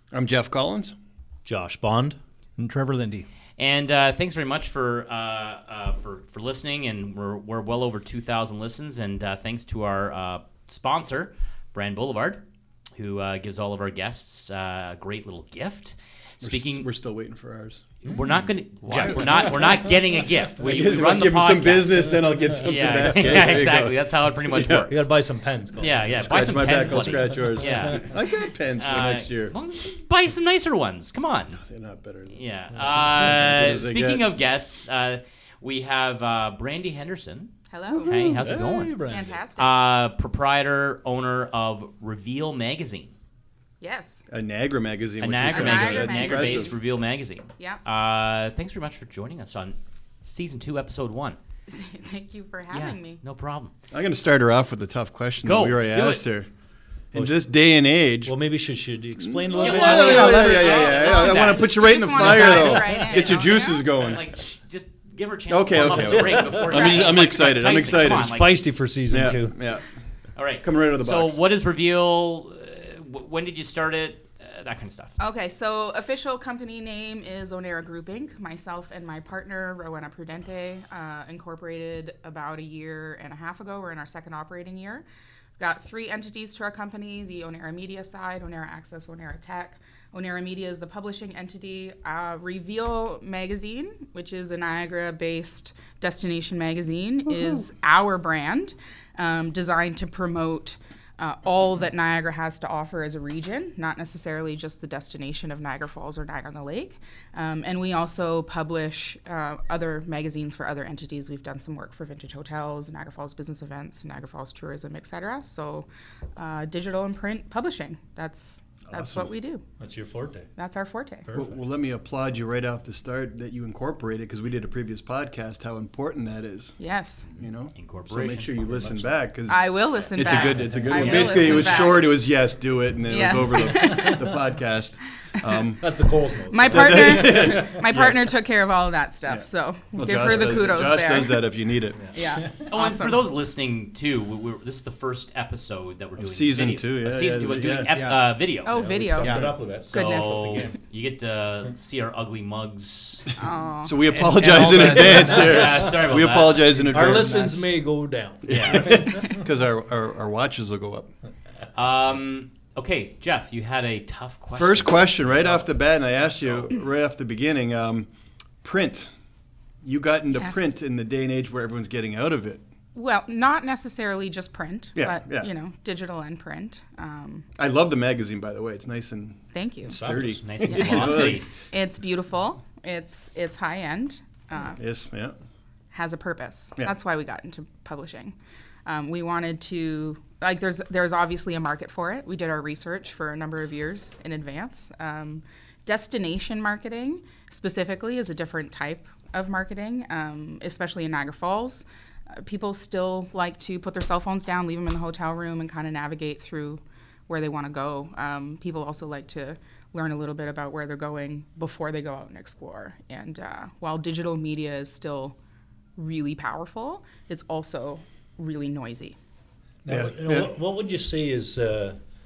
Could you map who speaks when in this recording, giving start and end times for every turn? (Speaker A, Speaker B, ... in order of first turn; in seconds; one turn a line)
Speaker A: 0.1-0.9
Speaker B: 1.4-2.2
Speaker C: 2.6-3.2
Speaker D: 3.6-12.4
Speaker D: 12.9-16.9
Speaker A: 16.4-17.8
Speaker B: 18.0-21.2
Speaker D: 18.0-25.1
Speaker A: 20.6-25.0
Speaker B: 22.9-23.4
Speaker B: 24.9-28.1
Speaker D: 25.8-28.1
Speaker A: 26.1-29.6
Speaker D: 28.8-31.6
Speaker A: 31.5-34.3
Speaker D: 32.3-43.1
Speaker B: 32.7-33.6
Speaker E: 37.7-38.5
Speaker B: 37.9-39.4
Speaker E: 39.0-39.8
Speaker E: 43.8-44.2
Speaker A: 44.3-46.8
Speaker D: 45.2-51.4
Speaker E: 45.5-46.8
Speaker E: 47.6-47.8
Speaker E: 51.7-53.2
Speaker D: 52.7-53.7
Speaker A: 53.9-56.5
Speaker D: 55.4-56.2
Speaker A: 57.1-58.4
Speaker B: 57.1-57.4
Speaker B: 58.2-61.1
Speaker A: 59.2-64.2
Speaker D: 59.6-62.0
Speaker E: 60.0-63.9
Speaker D: 63.2-68.6
Speaker A: 65.5-68.3
Speaker B: 65.8-69.6
Speaker E: 66.7-67.1
Speaker A: 69.1-69.9
Speaker D: 70.4-75.1
Speaker A: 70.6-71.4
Speaker E: 75.2-85.0
Speaker E: 85.6-119.6
Speaker A: 118.9-119.3
Speaker B: 119.8-120.5
Speaker E: 120.6-121.3
Speaker B: 121.2-121.6
Speaker A: 121.3-126.8
Speaker E: 126.8-127.3
Speaker A: 127.3-135.8
Speaker D: 127.3-129.2
Speaker E: 129.5-132.2
Speaker D: 130.2-132.0
Speaker B: 130.3-131.6
Speaker E: 133.0-134.3
Speaker B: 133.7-134.3
Speaker B: 135.8-137.8
Speaker E: 136.5-141.5
Speaker A: 136.7-138.3
Speaker A: 139.2-142.0
Speaker B: 141.9-142.7
Speaker E: 142.1-143.2
Speaker D: 142.7-148.8
Speaker A: 146.2-147.9
Speaker B: 147.4-147.9
Speaker C: 147.9-148.3
Speaker E: 148.6-150.8
Speaker B: 148.7-150.7
Speaker D: 149.9-153.3
Speaker E: 153.4-154.0
Speaker A: 153.8-157.5
Speaker C: 154.1-155.6
Speaker D: 154.5-157.6
Speaker B: 156.9-159.1
Speaker A: 158.4-161.1
Speaker D: 158.4-159.0
Speaker D: 161.7-165.6
Speaker A: 164.5-168.1
Speaker A: 168.6-169.1
Speaker A: 169.8-172.6
Speaker E: 170.4-170.8
Speaker E: 172.9-177.5
Speaker A: 174.9-175.5
Speaker A: 177.6-181.4
Speaker E: 179.5-180.0
Speaker B: 179.8-180.9
Speaker D: 180.3-181.5
Speaker E: 180.6-184.8
Speaker A: 184.8-185.3
Speaker E: 185.9-215.3
Speaker E: 216.0-219.2
Speaker B: 219.8-222.0
Speaker A: 219.9-220.5